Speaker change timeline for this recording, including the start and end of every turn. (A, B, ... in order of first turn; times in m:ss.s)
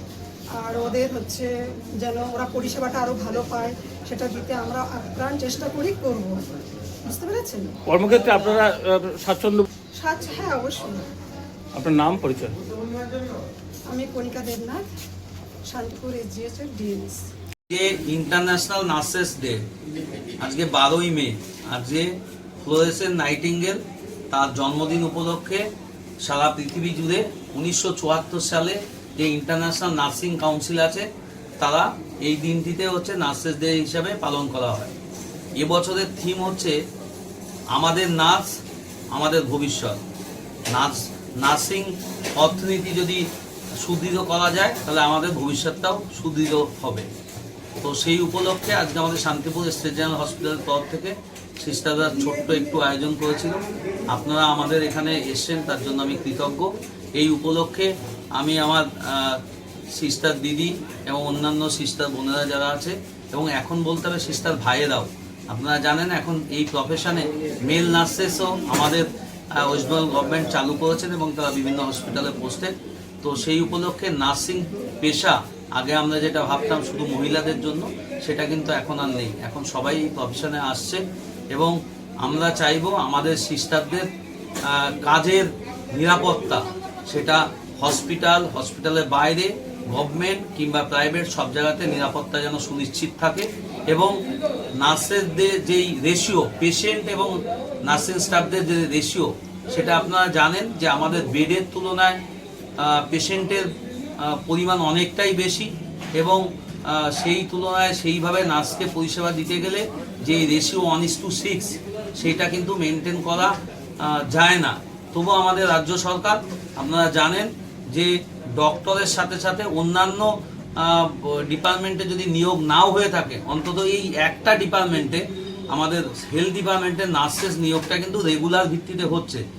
0:00.6-0:06.4 A
0:07.1-0:07.7 A
0:07.9-0:09.7 B
0:10.0-0:11.0 A
0:11.7-0:12.6 B
0:13.9-0:14.8 A
0:15.7-0:17.2 A
0:17.7-0:19.6 C
0:20.4-0:22.1 C
0:22.6-0:25.6 C
0:26.2-0:31.1 C
0:31.6-0:34.9 C
0:35.6-0:36.8 C
0:37.7-0:38.5 C
0:39.1-0:40.0 C
0:40.7-0:43.3 C
0:43.8-0:47.1 C
0:47.8-0:59.4 C
0:59.9-1:24.1 C
1:24.7-1:34.1 C
1:34.8-1:42.2 C
1:42.8-1:43.7 C
1:44.2-2:09.4 C